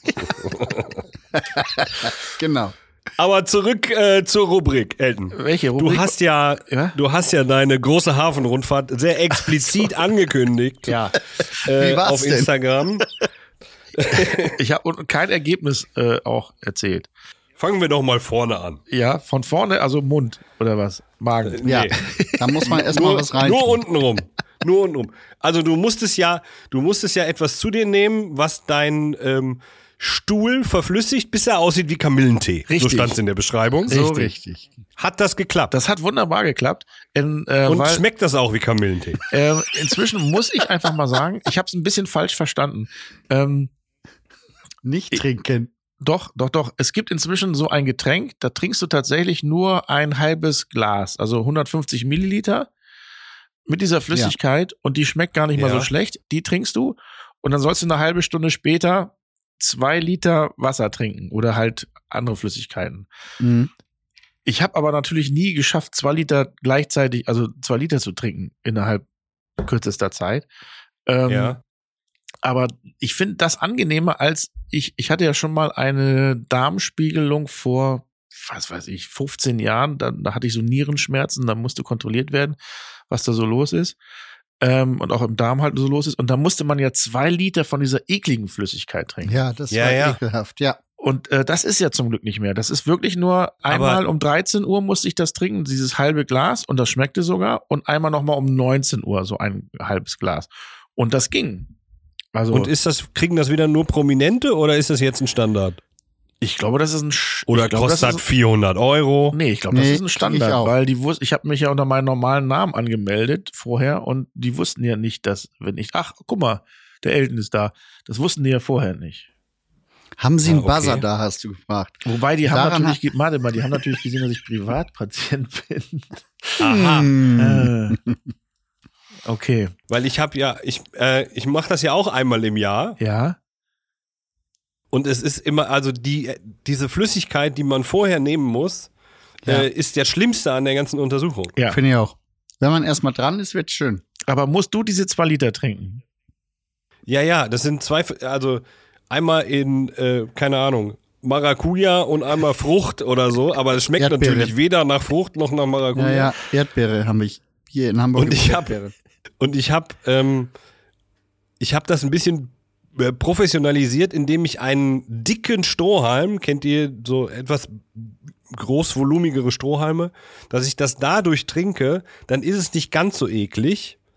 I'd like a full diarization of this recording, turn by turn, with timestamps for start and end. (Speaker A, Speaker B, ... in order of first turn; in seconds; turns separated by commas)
Speaker A: 0.2-1.0, Speaker B: 1.3-2.7, Speaker A: 3.2-11.0, Speaker C: 5.3-7.0, Speaker C: 10.9-11.1, Speaker A: 11.6-13.1, Speaker B: 11.6-12.5, Speaker A: 14.0-14.5, Speaker C: 14.5-17.1, Speaker A: 17.6-18.8, Speaker C: 18.9-22.8, Speaker A: 21.5-22.0, Speaker B: 21.6-23.8, Speaker A: 22.7-34.0, Speaker C: 32.7-33.2, Speaker B: 33.9-34.7, Speaker C: 33.9-34.3, Speaker A: 35.0-35.7, Speaker C: 35.7-38.0, Speaker A: 37.6-39.2, Speaker C: 39.3-43.7, Speaker B: 44.8-45.7, Speaker C: 46.0-52.7, Speaker C: 53.7-63.1, Speaker A: 55.5-55.9, Speaker B: 63.4-63.7, Speaker C: 64.5-69.0, Speaker C: 69.6-70.5, Speaker C: 71.0-71.6, Speaker A: 71.3-71.6, Speaker C: 72.4-82.6, Speaker C: 83.1-84.0, Speaker C: 84.6-89.4, Speaker B: 89.2-90.8, Speaker A: 89.7-90.2, Speaker C: 91.0-101.7, Speaker A: 93.7-94.0, Speaker C: 102.3-102.7, Speaker A: 102.5-105.8, Speaker C: 106.4-108.2, Speaker A: 107.5-109.4, Speaker C: 109.3-119.3, Speaker B: 109.7-110.7, Speaker B: 120.2-123.0, Speaker A: 120.4-121.0, Speaker C: 122.0-126.6, Speaker A: 126.6-127.1, Speaker B: 126.6-128.1, Speaker C: 127.3-128.0, Speaker C: 129.2-129.7, Speaker A: 129.9-133.0, Speaker C: 133.0-133.4, Speaker A: 134.9-138.9, Speaker A: 139.4-141.5, Speaker B: 141.7-144.0, Speaker C: 144.3-146.0, Speaker A: 147.1-156.3, Speaker B: 154.0-154.5, Speaker B: 155.9-158.9, Speaker A: 158.2-158.7, Speaker A: 159.4-160.5, Speaker A: 161.6-174.0